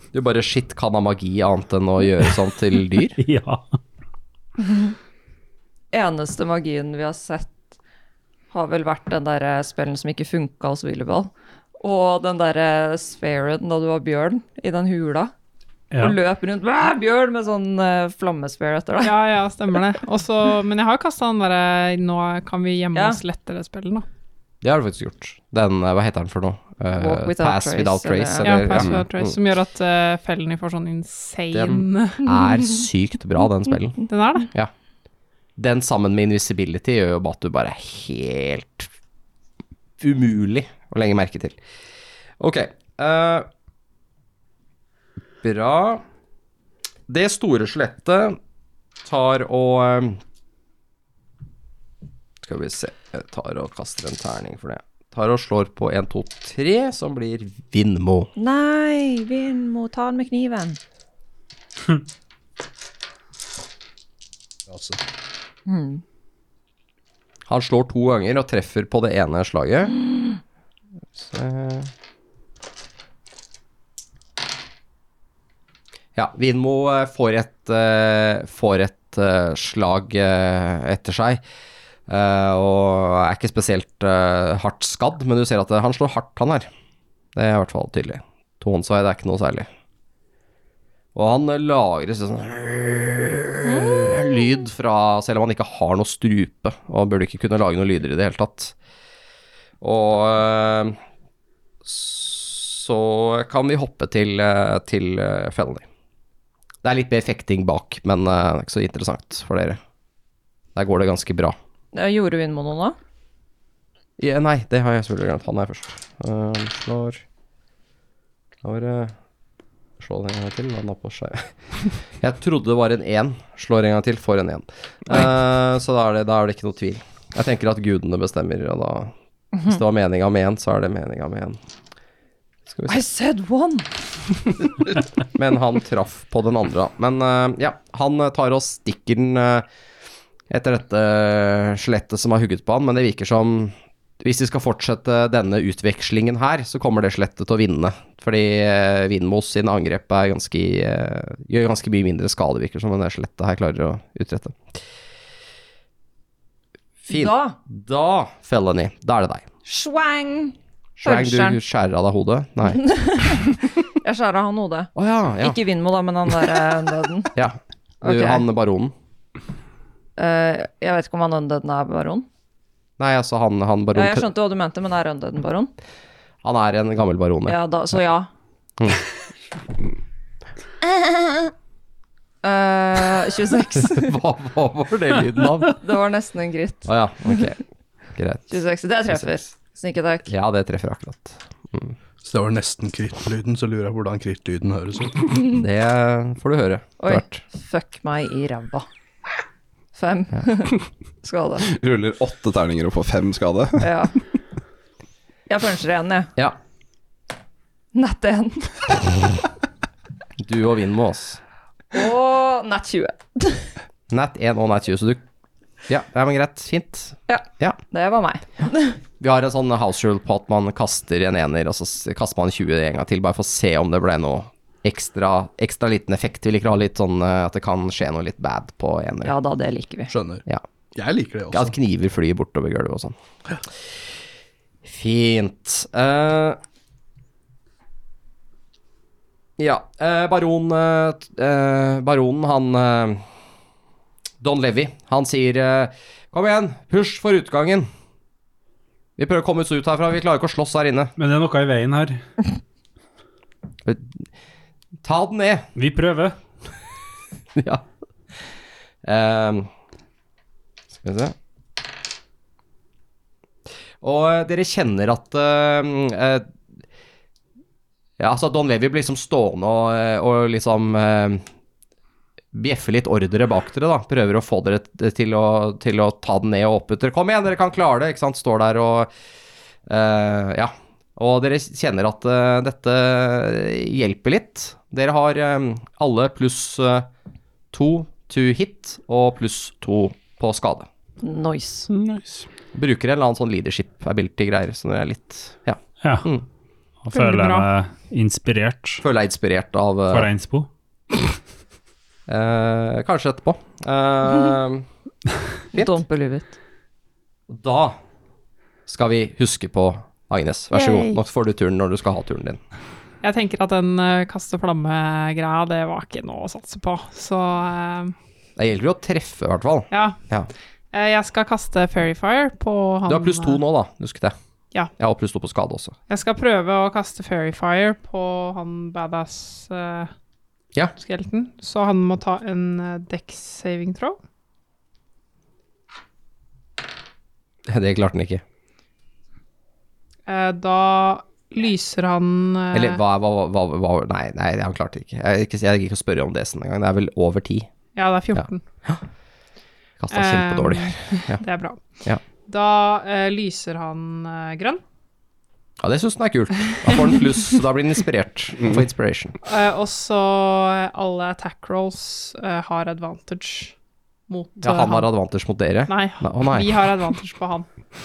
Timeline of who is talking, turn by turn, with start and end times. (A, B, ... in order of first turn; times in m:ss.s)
0:00.1-0:03.2 A
0:03.2-0:03.7 B
0:04.6-0:04.9 C
0:05.9-0:07.6 C
0:08.5-0:15.3 C
0:15.9-0:16.2 B
0:16.0-0:19.2 C
0:19.0-0:24.0 D
0:22.9-0:23.2 C
0:24.6-0:29.4 A
0:27.0-0:28.7 C
0:28.4-0:32.3 D
0:28.8-0:29.0 E
0:31.5-0:34.7 A
0:34.0-0:34.5 D
0:35.6-0:38.9 A
0:40.0-0:41.6 A
0:42.4-0:43.5 A
0:45.4-0:46.0 A
0:47.1-0:48.4 A
0:49.0-0:50.2 A
0:52.4-0:58.3 A
0:58.4-1:00.8 C
1:04.7-1:05.0 F
1:05.6-1:06.0 C
1:07.5-1:10.0 A
1:11.2-1:11.9 A
1:16.1-1:21.4 A
1:22.1-1:26.7 A
1:27.3-1:29.7 A
1:31.1-1:38.7 A
1:39.8-1:41.0 A
1:41.8-1:45.8 A
1:46.8-1:49.8 A
1:50.7-1:51.5 A
1:51.9-1:53.0 C
1:54.2-1:57.2 A
1:58.6-1:59.1 A
2:00.0-2:01.5 A
2:02.2-2:09.1 A
2:09.6-2:11.6 A
2:12.9-2:13.9 C
2:15.3-2:19.6 A
2:20.5-2:34.6 A
2:37.1-2:39.4 A
2:37.1-2:37.6 C
2:39.6-2:41.6 C
2:41.0-2:42.9 A
2:42.7-2:47.3 C
2:45.0-2:45.6 A
2:47.3-2:48.9 A
2:48.0-2:48.4 C
2:50.2-2:52.2 C
2:53.0-2:54.2 A
2:53.9-2:55.7 C
2:56.4-2:57.6 A
2:57.4-2:58.3 C
3:00.8-3:01.5 C
3:02.4-3:04.1 C
3:03.8-3:05.7 A
3:05.7-3:07.4 C
3:06.8-3:07.6 A
3:08.1-3:08.5 A
3:08.5-3:10.3 C
3:10.3-3:11.9 A
3:12.2-3:15.3 F
3:15.5-3:17.4 A
3:17.0-3:18.9 C
3:19.9-3:21.7 C
3:21.7-3:23.9 E
3:23.8-3:24.2 C
3:25.5-3:26.3 C
3:27.9-3:28.9 C
3:30.4-3:31.4 A
3:31.9-3:33.7 C
3:34.1-3:35.2 A
3:35.9-3:37.8 A
3:37.3-3:39.0 C
3:39.2-3:49.3 A
3:49.2-3:50.1 C
3:50.1-3:50.4 F
3:50.9-3:51.7 F
3:51.5-3:53.1 A
3:54.8-3:56.6 A
3:59.6-4:03.2 A
4:04.4-4:07.9 A
4:09.2-4:11.1 A
4:11.2-4:12.2 B
4:13.8-4:14.1 A
4:15.0-4:15.7 A
4:15.7-4:16.4 B
4:17.6-4:17.8 A
4:19.0-4:19.7 A
4:21.0-4:21.3 A
4:24.0-4:26.5 A
4:28.2-4:31.4 A
4:32.5-4:39.1 A
4:39.9-4:47.1 A
4:47.7-4:50.9 A
4:51.2-4:51.9 C
4:51.9-4:52.4 E
4:52.7-4:56.4 A
4:56.0-4:56.3 B
4:57.0-4:59.0 B
4:57.1-4:57.7 D
4:59.0-5:00.3 A
5:00.1-5:00.7 B
5:02.3-5:04.8 A
5:05.7-5:06.5 C
5:07.5-5:08.0 A
5:08.9-5:12.6 A
5:13.2-5:18.1 D
5:18.6-5:20.5 A
5:19.9-5:20.2 D
5:20.9-5:23.6 D
5:23.1-5:24.3 A
5:25.0-5:25.9 A
5:26.1-5:30.1 D
5:31.0-5:34.2 D
5:37.7-5:38.4 A
5:40.3-5:43.0 D
5:42.7-5:47.7 A
5:47.9-5:48.6 D
5:48.3-5:49.0 A
5:50.0-5:51.4 A
5:50.1-5:54.8 D
5:55.8-5:59.4 A
5:59.4-6:03.7 D
6:04.3-6:05.1 D
6:04.6-6:06.8 A
6:05.9-6:07.7 D